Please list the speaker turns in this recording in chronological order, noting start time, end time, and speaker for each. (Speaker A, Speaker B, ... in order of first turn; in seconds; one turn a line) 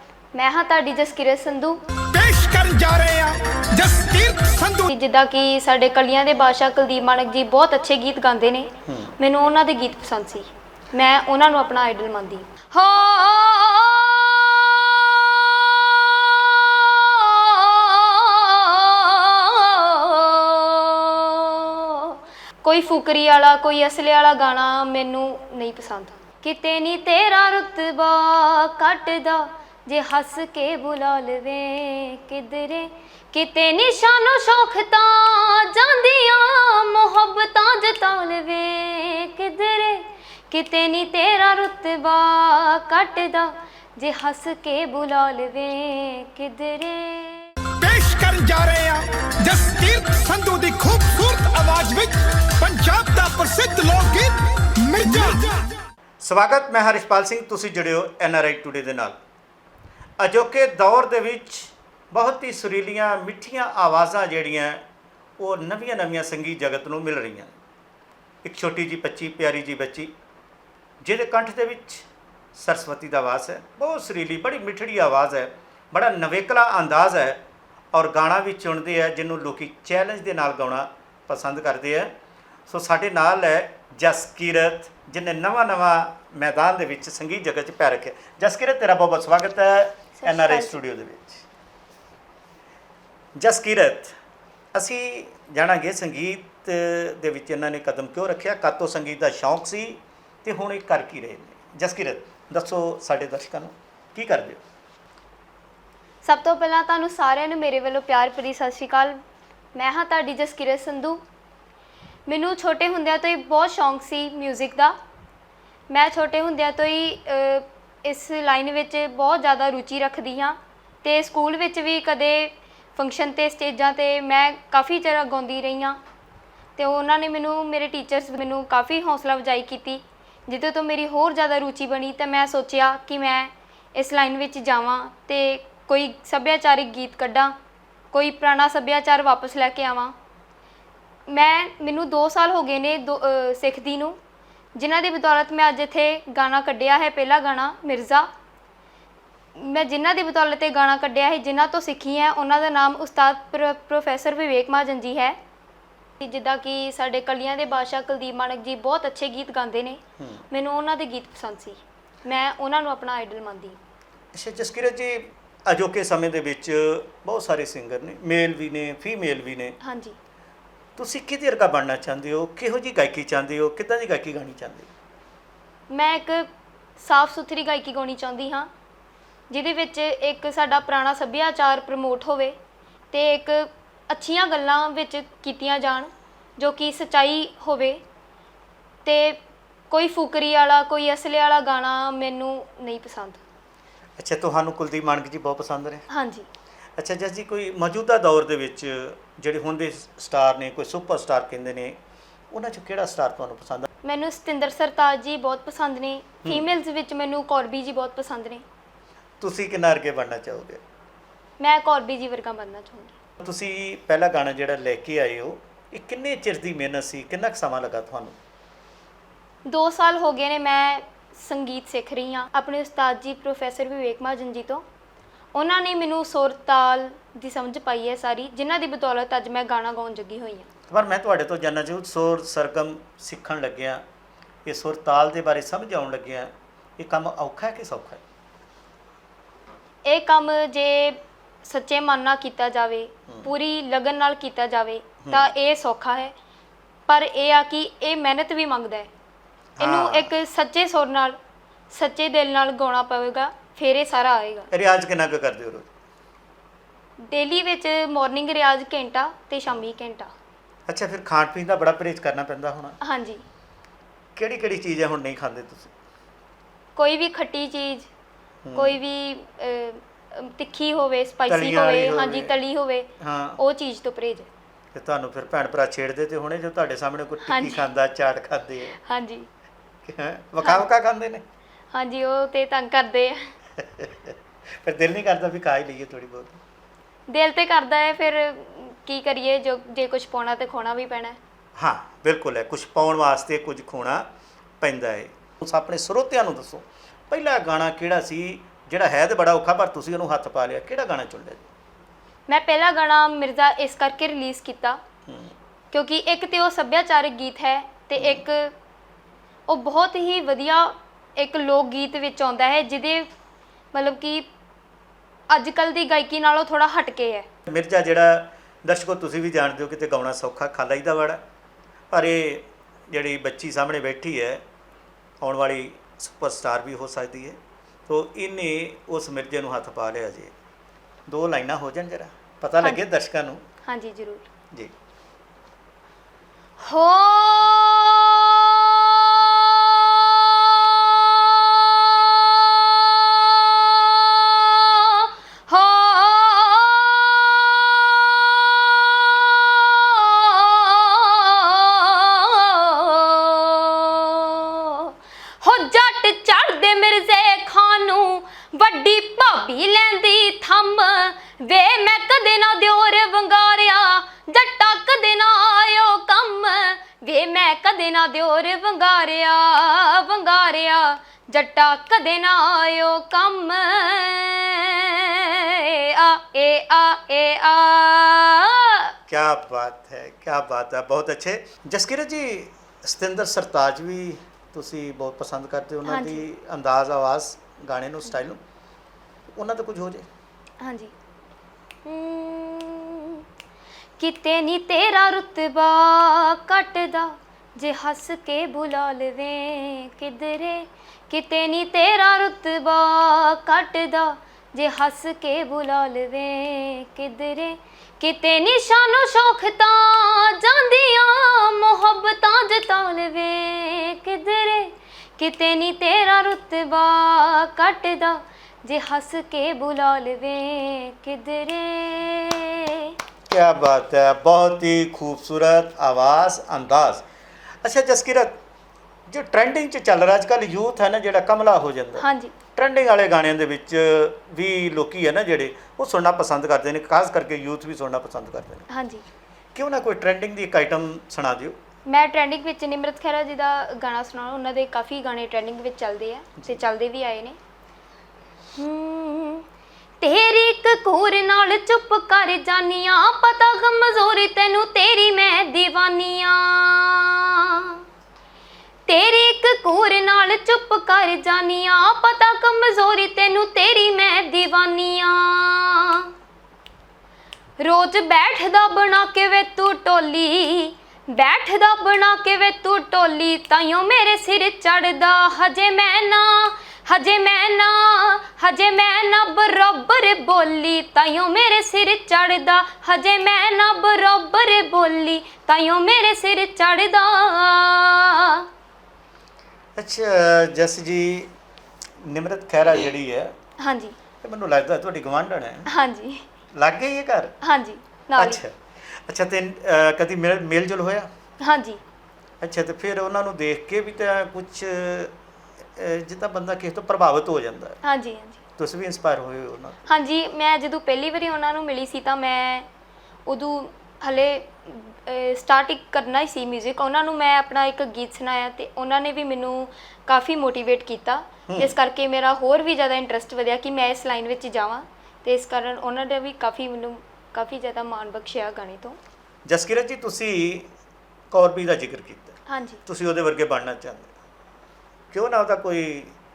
Speaker A: 0.3-1.8
Speaker B: 2.1-4.9
Speaker A: 4.9-47.5
Speaker C: 8.9-9.2
Speaker B: 47.8-55.7
Speaker C: 56.2-59.2
Speaker C: 60.2-64.8
Speaker C: 65.4-67.5
Speaker C: 68.4-70.1
Speaker C: 71.0-77.4
Speaker C: 77.9-82.2
Speaker C: 82.7-91.5
Speaker A: 90.2-90.8
Speaker C: 93.4-94.2
Speaker C: 94.7-104.6
Speaker A: 106.2-109.2
Speaker A: 109.8-111.2
Speaker A: 112.3-115.0
Speaker A: 115.9-126.0
Speaker A: 126.8-137.5
Speaker A: 138.1-140.1
Speaker A: 141.3-144.2
Speaker A: 144.8-148.3
Speaker A: 149.6-155.4
Speaker A: 156.2-163.8
Speaker C: 160.2-160.4
Speaker C: 164.3-169.8
Speaker A: 169.8-170.2
Speaker C: 171.0-174.9
Speaker A: 175.9-178.7
Speaker A: 179.5-182.6
Speaker A: 183.1-188.0
Speaker A: 189.1-193.4
Speaker C: 194.2-196.1
Speaker A: 196.1-196.5
Speaker C: 197.0-202.0
Speaker C: 202.5-203.9
Speaker A: 204.0-208.6
Speaker C: 209.4-210.8
Speaker A: 211.6-213.1
Speaker C: 213.4-218.4
Speaker A: 219.7-224.8
Speaker A: 225.5-230.7
Speaker C: 230.9-234.0
Speaker C: 234.7-238.2
Speaker A: 240.1-246.3
Speaker C: 245.2-245.5
Speaker A: 247.1-249.1
Speaker C: 249.8-250.3
Speaker A: 249.8-251.4
Speaker A: 251.9-254.7
Speaker C: 254.7-255.9
Speaker A: 257.3-260.3
Speaker C: 260.9-263.0
Speaker A: 263.0-263.4
Speaker C: 264.4-265.9
Speaker A: 267.0-268.1
Speaker C: 268.6-269.0
Speaker A: 268.8-274.5
Speaker C: 271.5-272.6
Speaker C: 273.2-273.6
Speaker C: 274.9-279.0
Speaker A: 277.5-277.9
Speaker A: 279.0-279.5
Speaker C: 280.1-281.4
Speaker A: 281.9-283.5
Speaker C: 283.8-286.6
Speaker A: 287.3-291.4
Speaker C: 291.8-294.3
Speaker C: 294.8-301.7
Speaker A: 302.5-305.0
Speaker C: 305.3-305.5
Speaker A: 305.9-308.7
Speaker C: 308.2-308.4
Speaker A: 309.7-313.3
Speaker A: 313.9-314.5
Speaker A: 315.5-317.5
Speaker C: 317.7-321.4
Speaker C: 322.1-324.6
Speaker C: 325.4-330.5
Speaker C: 331.3-333.6
Speaker A: 333.9-334.5
Speaker A: 336.8-379.1
Speaker C: 379.3-388.6
Speaker A: 386.1-386.5
Speaker C: 389.6-390.3
Speaker A: 390.8-391.1
Speaker A: 392.1-393.4
Speaker A: 394.2-423.1
Speaker C: 423.5-427.2
Speaker C: 427.8-428.6
Speaker C: 429.3-438.9
Speaker A: 432.2-432.5
Speaker A: 438.9-439.2
Speaker C: 439.8-441.8
Speaker A: 442.1-447.6
Speaker A: 448.8-449.6
Speaker A: 450.2-458.0
Speaker A: 459.1-466.3
Speaker A: 467.8-488.7
Speaker C: 490.0-491.5
Speaker C: 492.2-493.5
Speaker A: 493.8-494.2
Speaker C: 494.4-495.9
Speaker A: 495.9-496.4
Speaker C: 496.7-497.5
Speaker A: 497.6-498.6
Speaker C: 498.4-501.3
Speaker A: 501.6-502.0
Speaker C: 502.6-505.3
Speaker C: 506.0-508.0
Speaker A: 508.0-508.6
Speaker C: 508.8-510.0
Speaker A: 510.1-512.9
Speaker A: 513.5-529.2
Speaker C: 521.7-521.9
Speaker C: 529.7-530.9
Speaker C: 531.5-534.3
Speaker A: 532.7-533.0
Speaker C: 535.3-536.3